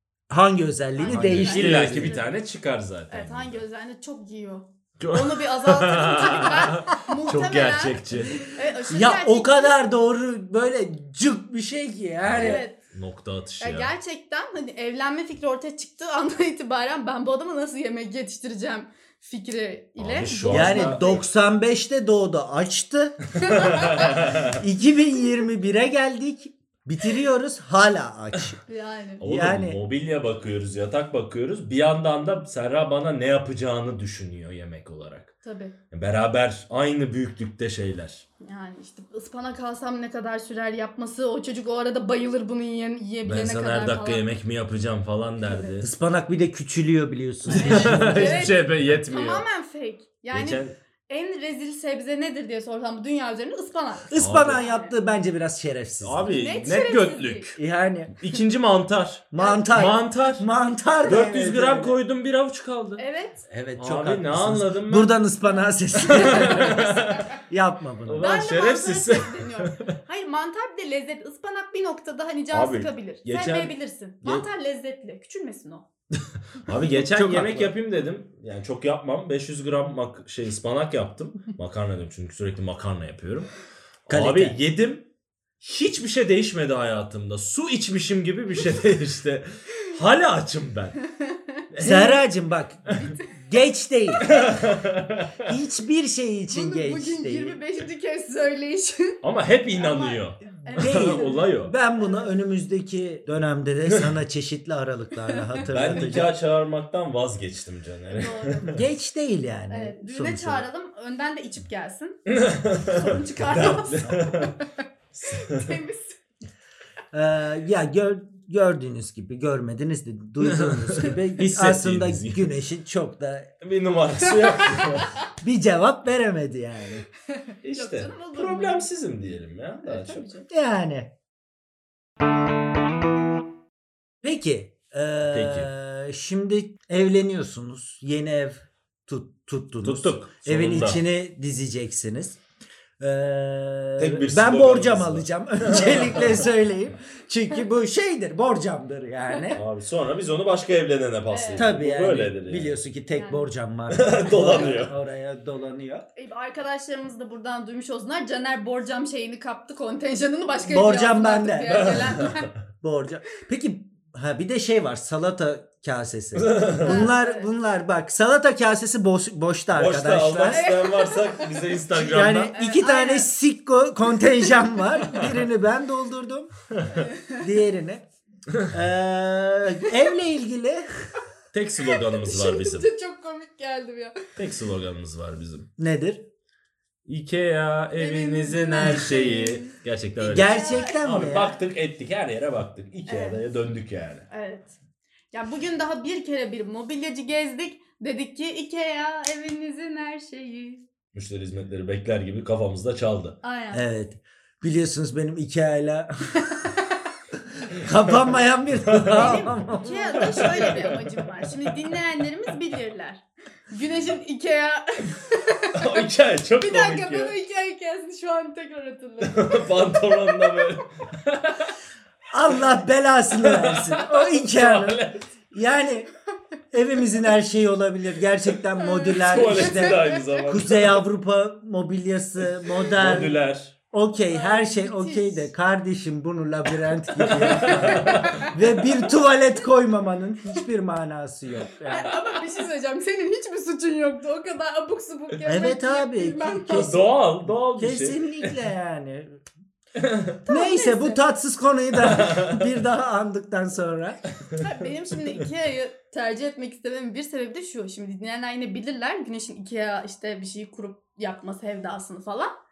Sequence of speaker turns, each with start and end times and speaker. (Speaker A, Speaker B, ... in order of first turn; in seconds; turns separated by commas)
Speaker A: 0.3-2.2, Speaker B: 0.9-2.3, Speaker C: 1.1-3.6, Speaker B: 3.1-9.8, Speaker C: 5.0-8.5, Speaker A: 8.9-12.6, Speaker C: 12.2-13.9, Speaker B: 12.4-12.8, Speaker B: 13.6-21.2, Speaker C: 20.0-21.2, Speaker A: 20.5-23.2, Speaker B: 23.4-24.5, Speaker C: 23.4-24.6, Speaker A: 24.1-28.6, Speaker B: 28.7-29.2, Speaker A: 29.2-29.8, Speaker C: 29.2-35.3, Speaker B: 35.4-35.8, Speaker C: 35.9-38.2, Speaker B: 38.4-44.2, Speaker C: 43.2-45.9, Speaker B: 45.4-45.8, Speaker A: 45.8-48.6, Speaker C: 47.5-49.4, Speaker B: 47.5-54.9, Speaker C: 50.3-50.7, Speaker A: 54.1-56.4, Speaker C: 54.1-54.6, Speaker C: 56.0-57.6, Speaker B: 56.2-57.5, Speaker A: 57.6-58.1, Speaker C: 58.2-60.4, Speaker A: 59.3-62.0, Speaker B: 59.4-59.9, Speaker C: 61.0-63.0, Speaker B: 63.0-63.4, Speaker A: 63.5-68.2, Speaker C: 63.8-65.2, Speaker B: 65.4-67.3, Speaker C: 66.0-67.3, Speaker C: 68.0-69.8, Speaker B: 68.2-75.9, Speaker C: 72.5-73.7, Speaker C: 76.5-83.5, Speaker A: 76.7-77.7, Speaker C: 84.0-85.1, Speaker A: 84.1-84.6, Speaker C: 85.6-91.0, Speaker B: 91.2-91.6, Speaker C: 91.7-92.2, Speaker A: 91.8-94.4, Speaker B: 94.2-94.6, Speaker C: 94.3-95.5, Speaker A: 95.4-97.6, Speaker B: 96.5-99.2, Speaker C: 99.2-101.7, Speaker B: 99.7-102.2, Speaker A: 100.8-106.3, Speaker B: 105.3-105.6, Speaker C: 105.7-108.8, Speaker B: 108.1-108.8, Speaker A: 108.6-110.7, Speaker B: 109.7-112.3, Speaker C: 112.3-114.6, Speaker B: 112.8-114.7, Speaker C: 115.1-115.8, Speaker B: 115.3-116.2, Speaker A: 117.1-123.5, Speaker C: 120.4-122.5, Speaker C: 123.6-125.2, Speaker B: 124.3-125.1, Speaker A: 125.3-127.0, Speaker B: 127.3-128.9, Speaker C: 127.6-130.3, Speaker B: 129.8-130.5, Speaker A: 130.5-131.1, Speaker A: 134.2-142.4, Speaker C: 135.3-135.7, Speaker C: 139.8-141.0, Speaker A: 143.0-149.6, Speaker C: 144.0-146.5, Speaker C: 149.5-152.8, Speaker B: 151.3-151.7, Speaker A: 151.5-156.1, Speaker B: 153.1-153.5, Speaker C: 153.9-154.9, Speaker B: 156.2-162.5, Speaker A: 160.7-162.0, Speaker C: 161.7-162.5, Speaker A: 162.8-170.7, Speaker C: 166.3-167.0, Speaker B: 166.8-167.5, Speaker C: 169.7-172.5, Speaker B: 170.5-173.3, Speaker A: 171.9-176.5, Speaker B: 174.7-175.0, Speaker C: 176.7-177.0, Speaker B: 176.9-177.4, Speaker A: 177.2-178.1, Speaker A: 178.7-180.9, Speaker C: 181.5-182.9, Speaker B: 181.9-184.2, Speaker C: 184.4-185.7, Speaker A: 185.8-186.2, Speaker C: 187.1-194.2, Speaker B: 187.9-191.0, Speaker A: 188.8-189.1, Speaker A: 190.3-191.5, Speaker B: 193.1-193.4, Speaker B: 194.3-194.8, Speaker B: 195.3-200.8, Speaker C: 201.1-203.4, Speaker B: 203.4-203.8, Speaker A: 203.7-206.5, Speaker B: 206.4-207.0, Speaker A: 207.6-210.5, Speaker C: 208.8-209.6, Speaker B: 209.1-216.1, Speaker C: 210.1-211.7, Speaker C: 215.7-217.3, Speaker B: 216.6-220.7, Speaker C: 219.2-221.7, Speaker A: 222.3-226.1, Speaker C: 223.4-225.2, Speaker A: 226.7-233.4, Speaker B: 228.8-230.4, Speaker C: 229.1-231.0, Speaker C: 232.7-233.7, Speaker A: 233.9-242.1, Speaker B: 234.3-235.5, Speaker C: 237.2-238.5, Speaker B: 237.6-238.5, Speaker B: 241.9-246.9, Speaker A: 245.4-249.4, Speaker C: 246.7-248.6, Speaker C: 249.9-250.4, Speaker B: 250.5-251.2, Speaker A: 250.5-254.2, Speaker C: 252.0-252.7, Speaker B: 254.6-262.5